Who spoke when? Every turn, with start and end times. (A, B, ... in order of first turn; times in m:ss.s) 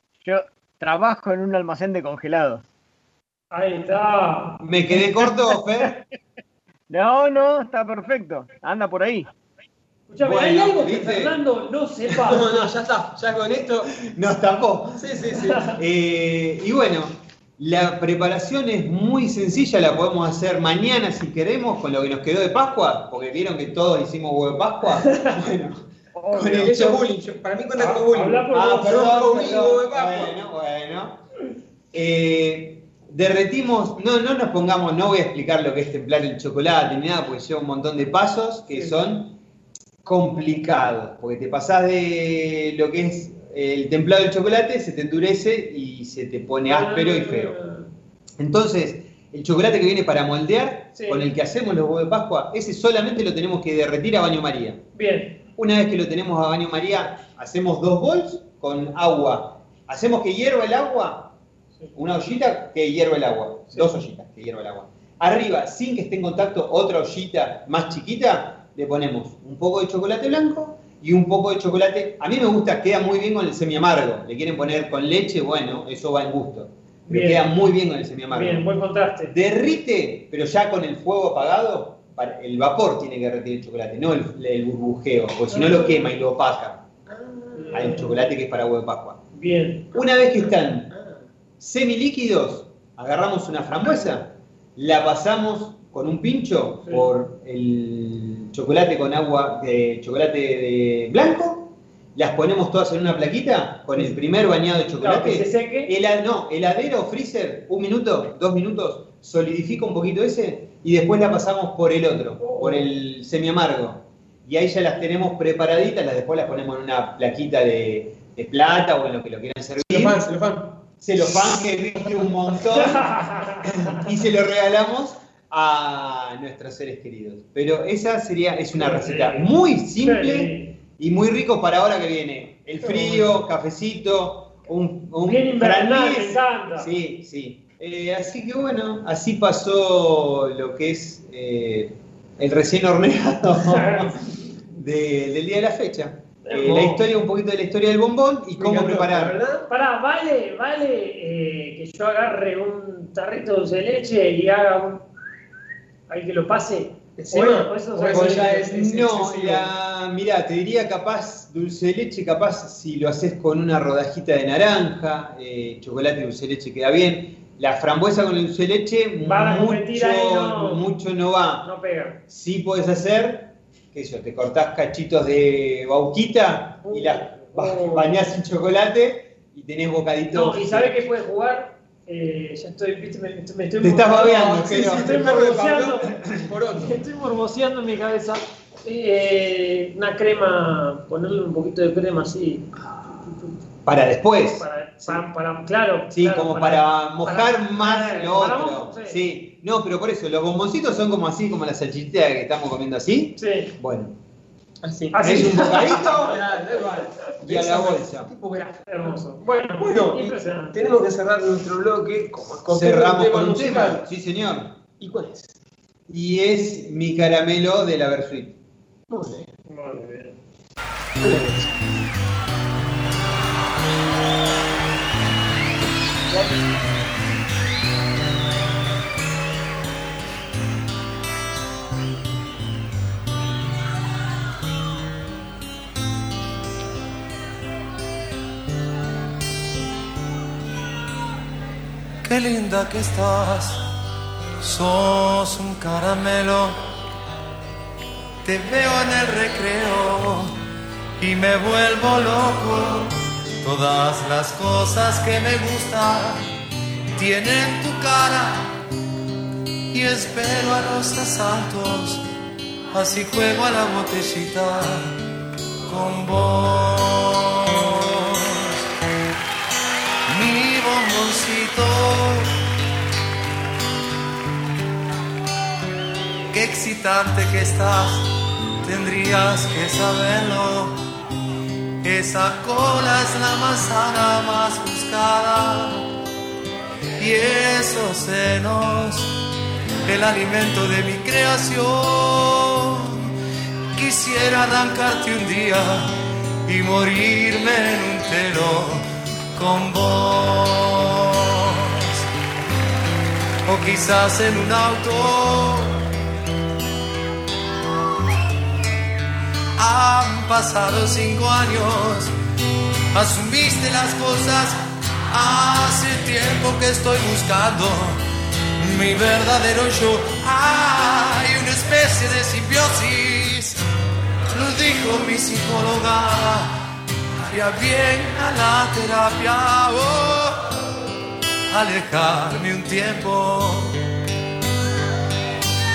0:00.2-0:02.6 A
0:03.5-0:04.6 B
0:04.6-0:06.0 C
0:06.9-0:09.3 A
0:10.1-0:12.4 B
0:10.2-0:11.4 C
0:12.1-0:13.9 D
0:13.9-0:15.1 C
0:15.0-0:15.7 D
0:15.7-0:27.0 C
0:26.3-0:30.4 D
0:27.8-0:29.3 B
0:28.5-0:31.2 C
0:31.9-0:39.4 C
0:38.7-0:39.0 B
0:40.0-0:47.6 C
0:46.7-0:47.9 B
0:48.4-0:54.8 C
0:51.0-0:51.3 B
0:54.9-0:55.4 B
0:55.6-1:01.4 C
1:02.0-1:18.7 C
1:17.1-1:17.5 B
1:18.3-1:19.3 B
1:19.3-1:26.9 C
1:25.5-1:26.1 B
1:27.1-1:27.6 D
1:27.5-1:28.2 B
1:27.7-1:29.2 C
1:29.3-1:29.9 B
1:29.9-1:31.0 C
1:31.6-2:00.2 C
1:45.0-1:45.9 B
1:52.4-1:52.9 B
1:59.9-2:00.8 D
2:01.0-2:29.4 C
2:02.8-2:03.6 B
2:08.7-2:10.7 B
2:12.8-2:13.3 B
2:15.2-2:16.9 B
2:23.6-2:24.2 B
2:26.4-2:27.1 B
2:28.6-2:29.7 D
2:29.7-2:35.1 B
2:36.1-2:38.7 B
2:37.2-2:39.7 D
2:38.1-2:51.7 C
2:49.2-2:50.8 B
2:51.6-2:52.2 B
2:52.3-3:01.0 C
2:56.8-2:58.3 B
3:00.3-3:06.1 B
3:03.8-3:05.2 C
3:04.4-3:07.0 D
3:06.8-3:13.5 B
3:13.9-3:15.3 C
3:14.6-3:19.2 B
3:16.1-3:24.2 C
3:23.4-3:23.7 B
3:24.8-3:29.2 D
3:25.1-3:26.1 B
3:25.2-3:26.4 C
3:27.4-3:28.3 C
3:28.8-3:30.9 B
3:29.8-3:34.1 D
3:32.7-3:34.8 C
3:35.0-3:35.6 D
3:36.1-3:38.6 C
3:39.1-3:39.5 D
3:39.7-3:40.4 B
3:41.2-3:41.7 D
3:46.3-3:46.6 D
4:02.2-4:03.8 E
4:04.6-4:06.8 E
4:08.4-4:10.6 E
4:11.2-4:16.4 E
4:17.2-4:18.7 E
4:19.9-4:22.2 E
4:22.9-4:25.2 E
4:25.9-4:27.5 E
4:30.3-4:32.5 E
4:36.5-4:38.3 E
4:38.8-4:41.0 E
4:42.0-4:46.0 E
4:47.2-4:49.3 E
4:50.1-4:53.3 E
4:54.0-4:56.1 E
4:56.7-4:59.0 E
4:59.6-5:02.0 E
5:03.7-5:06.0 E
5:09.8-5:12.3 E
5:13.1-5:14.8 E
5:15.3-5:18.2 E
5:18.8-5:23.8 E
5:24.5-5:26.7 E
5:27.5-5:30.6 E
5:31.7-5:34.0 E